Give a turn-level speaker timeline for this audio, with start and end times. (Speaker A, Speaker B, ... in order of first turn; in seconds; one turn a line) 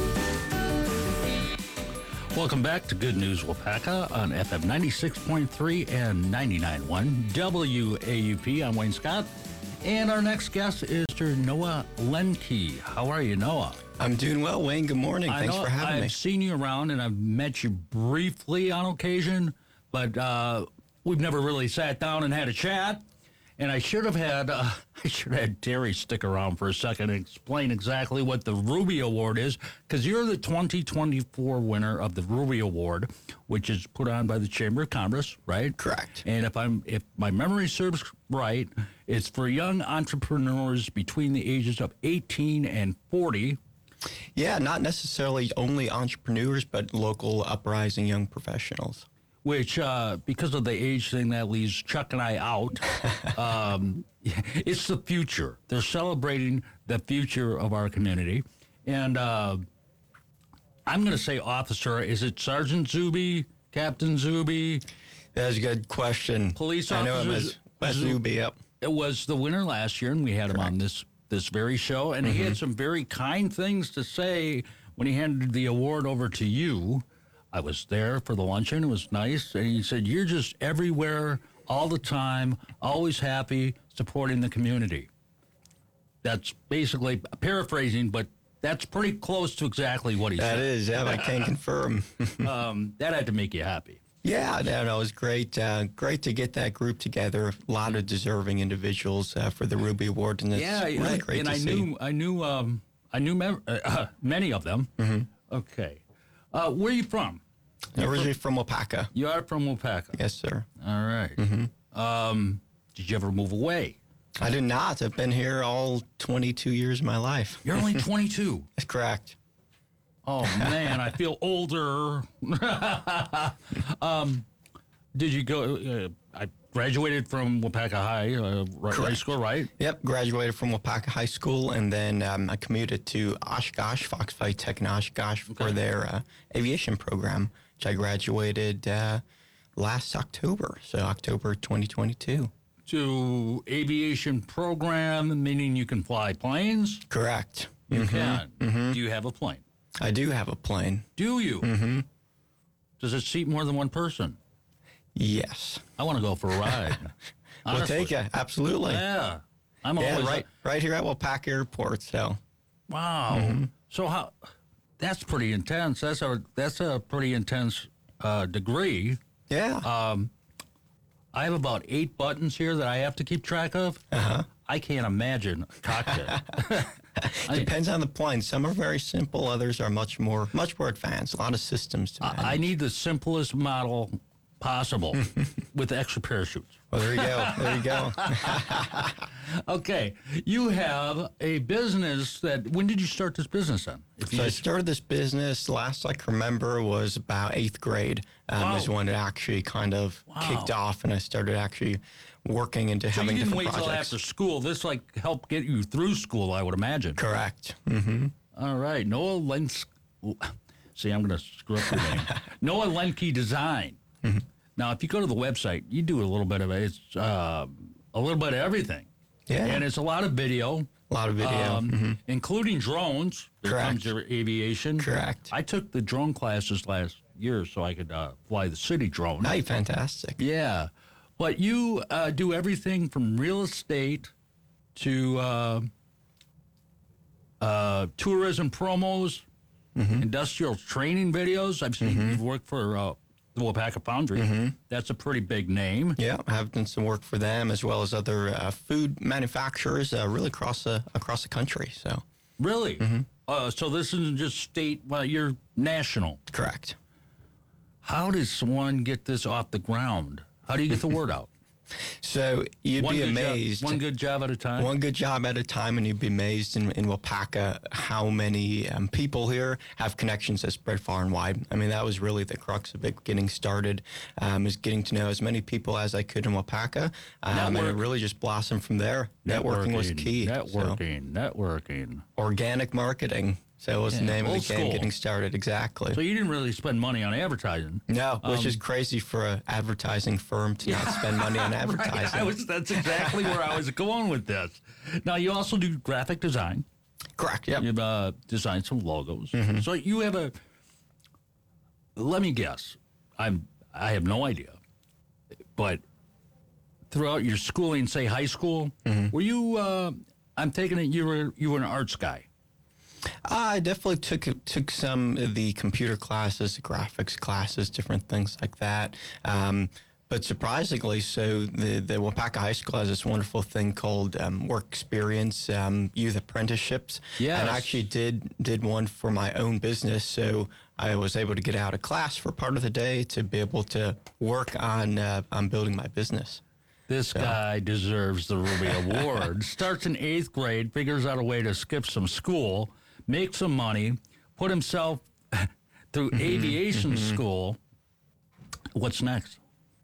Speaker A: 2.3-9.3
Speaker A: 9.8-13.8
Speaker B: 14.0-16.2
Speaker A: 15.3-23.0
Speaker A: 23.6-43.6
Speaker B: 35.8-36.2
Speaker B: 44.4-49.1
Speaker A: 49.4-59.6
Speaker A: 60.9-64.8
Speaker B: 65.3-68.6
Speaker A: 66.5-68.2
Speaker A: 68.8-85.1
Speaker B: 72.2-72.6
Speaker A: 86.2-91.3
Speaker B: 90.4-92.5
Speaker A: 92.4-94.0
Speaker B: 94.2-101.9
Speaker A: 100.5-104.9
Speaker B: 105.0-105.3
Speaker A: 105.5-106.0
Speaker A: 106.5-107.4
Speaker B: 108.0-109.1
Speaker A: 108.0-108.3
Speaker A: 109.1-110.2
Speaker B: 110.1-110.7
Speaker A: 110.8-111.4
Speaker B: 111.4-111.7
Speaker A: 111.9-114.0
Speaker B: 114.4-118.0
Speaker A: 117.6-118.7
Speaker B: 118.8-119.4
Speaker A: 120.2-124.5
Speaker A: 125.1-129.7
Speaker B: 128.9-129.2
Speaker B: 129.8-139.2
Speaker A: 135.5-135.8
Speaker B: 139.8-142.5
Speaker A: 142.9-147.0
Speaker B: 147.1-149.0
Speaker A: 147.9-149.6
Speaker B: 150.0-151.1
Speaker A: 151.2-151.7
Speaker B: 151.6-152.1
Speaker A: 153.0-154.4
Speaker B: 155.2-155.8
Speaker A: 156.0-157.1
Speaker A: 157.7-158.1
Speaker B: 157.7-159.0
Speaker A: 158.9-160.5
Speaker B: 160.0-162.4
Speaker A: 162.9-164.4
Speaker B: 163.3-163.7
Speaker A: 165.0-169.2
Speaker B: 169.5-169.9
Speaker A: 169.8-170.3
Speaker A: 171.3-176.9
Speaker B: 174.1-174.5
Speaker B: 176.3-182.7
Speaker A: 177.5-177.7
Speaker A: 182.2-194.7
Speaker B: 186.9-188.9
Speaker B: 194.3-204.2
Speaker A: 198.6-198.9
Speaker A: 200.3-200.7
Speaker A: 203.1-207.2
Speaker B: 207.2-208.3
Speaker A: 208.6-214.0
Speaker B: 211.9-212.2
Speaker A: 214.8-219.1
Speaker B: 219.5-219.8
Speaker A: 219.6-220.9
Speaker B: 221.1-222.2
Speaker A: 221.4-229.6
Speaker B: 223.7-224.1
Speaker B: 225.0-225.5
Speaker B: 229.4-230.4
Speaker A: 230.4-234.3
Speaker A: 234.9-235.9
Speaker A: 237.6-239.4
Speaker B: 240.0-240.3
Speaker A: 240.2-246.2
Speaker B: 242.0-242.4
Speaker B: 244.3-244.8
Speaker B: 246.2-252.2
Speaker A: 252.6-256.4
Speaker B: 253.0-253.3
Speaker B: 256.5-257.0
Speaker A: 258.0-261.5
Speaker B: 262.2-264.0
Speaker A: 263.0-264.9
Speaker B: 264.8-281.0
Speaker A: 277.5-278.0
Speaker A: 279.4-282.2
Speaker B: 282.4-286.2
Speaker A: 284.1-285.1
Speaker A: 286.1-288.8
Speaker B: 288.1-293.6
Speaker A: 290.9-296.9
Speaker B: 297.4-297.9
Speaker A: 297.8-300.6
Speaker B: 299.5-299.9
Speaker A: 302.2-304.8
Speaker A: 305.8-306.0
Speaker A: 307.1-312.5
Speaker B: 309.1-309.3
Speaker B: 313.5-336.6
Speaker A: 327.4-328.0
Speaker A: 337.1-347.8
Speaker B: 337.3-337.6
Speaker B: 346.3-347.4
Speaker A: 348.9-349.6